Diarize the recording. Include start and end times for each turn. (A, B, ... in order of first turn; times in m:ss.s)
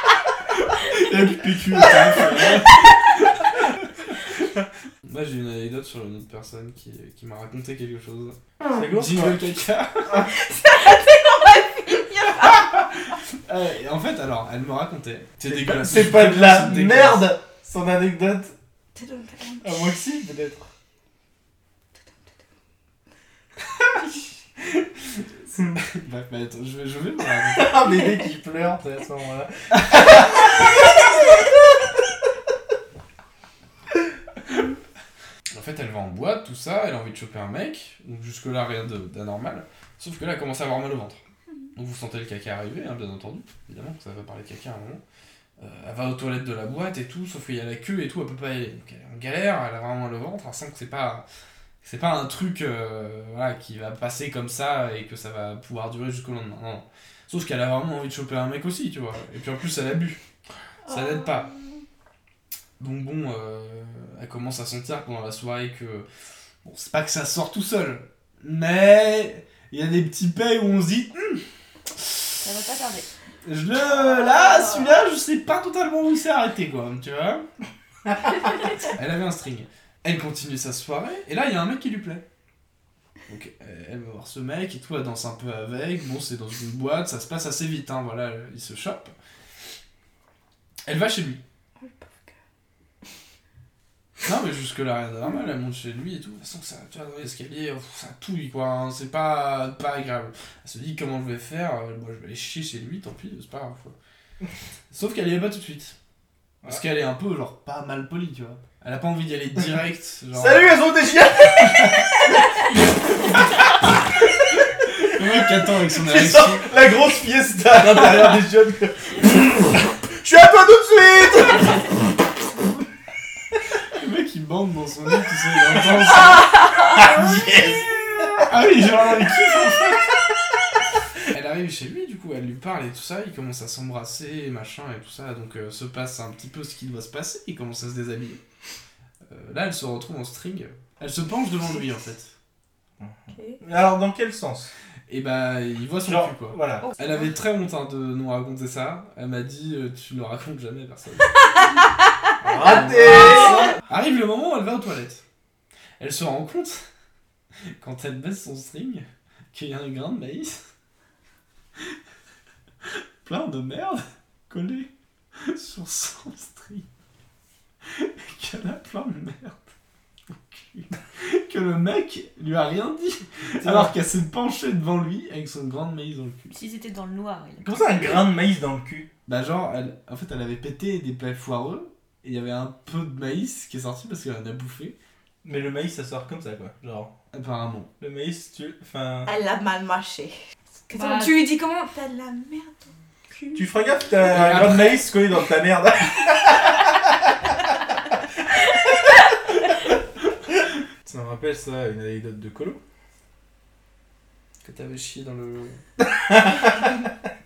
0:00.6-0:04.4 A
0:05.0-0:08.4 A
0:08.7-0:09.4 B
0:08.9-0:10.3 A
0:10.2-0:13.2 C
0:12.4-0:17.2 A
0:15.4-0:18.5 B
0:18.9-0:19.9 C
0:19.6-0:20.7 B
0:24.6-0:27.7 A
0:27.5-0:30.4 B
0:29.8-0:30.2 A
0:35.5-0:41.2 A
0:41.8-0:45.0 A
0:45.6-0:51.2 A
0:51.8-1:00.2 A
1:00.8-1:01.2 C
1:00.9-1:01.5 A
1:02.8-1:06.1 A
1:06.6-1:11.4 A
1:12.4-1:13.1 D
1:13.4-1:17.4 A
1:14.0-1:14.9 D
1:18.7-1:22.2 A
1:23.3-1:29.1 A
1:30.8-1:31.4 A
1:31.8-1:32.3 C
1:34.2-1:44.0 A
1:44.9-1:45.9 A
1:46.6-1:50.8 A
1:50.3-1:52.0 B
1:54.8-1:56.7 A
1:55.8-2:01.9 B
1:57.9-1:58.4 A
2:03.9-2:06.5 A
2:06.5-2:08.5 B
2:08.4-2:10.1 A
2:11.3-2:18.4 A
2:19.3-2:22.3 A
2:23.0-2:24.7 B
2:25.1-2:31.3 A
2:26.0-2:26.9 B
2:26.8-2:27.3 C
2:32.4-2:33.7 B
2:32.5-2:33.4 C
2:32.6-2:35.2 A
2:36.0-2:36.8 A
2:37.8-2:40.6 A
2:43.2-2:44.9 A
2:45.5-2:46.8 A
2:47.9-2:49.7 A
2:50.3-2:56.5 A
2:53.6-2:53.9 B
2:56.5-2:57.8 D
2:57.6-2:59.1 B
2:59.2-3:05.0 A
3:05.4-3:07.1 B
3:07.3-3:07.9 A
3:08.0-3:09.3 B
3:09.2-3:10.3 C
3:10.9-3:13.7 C
3:10.9-3:11.3 D
3:13.5-3:16.7 B
3:14.3-3:15.0 A
3:21.0-3:22.8 B
3:24.6-3:25.8 A
3:26.0-3:27.1 B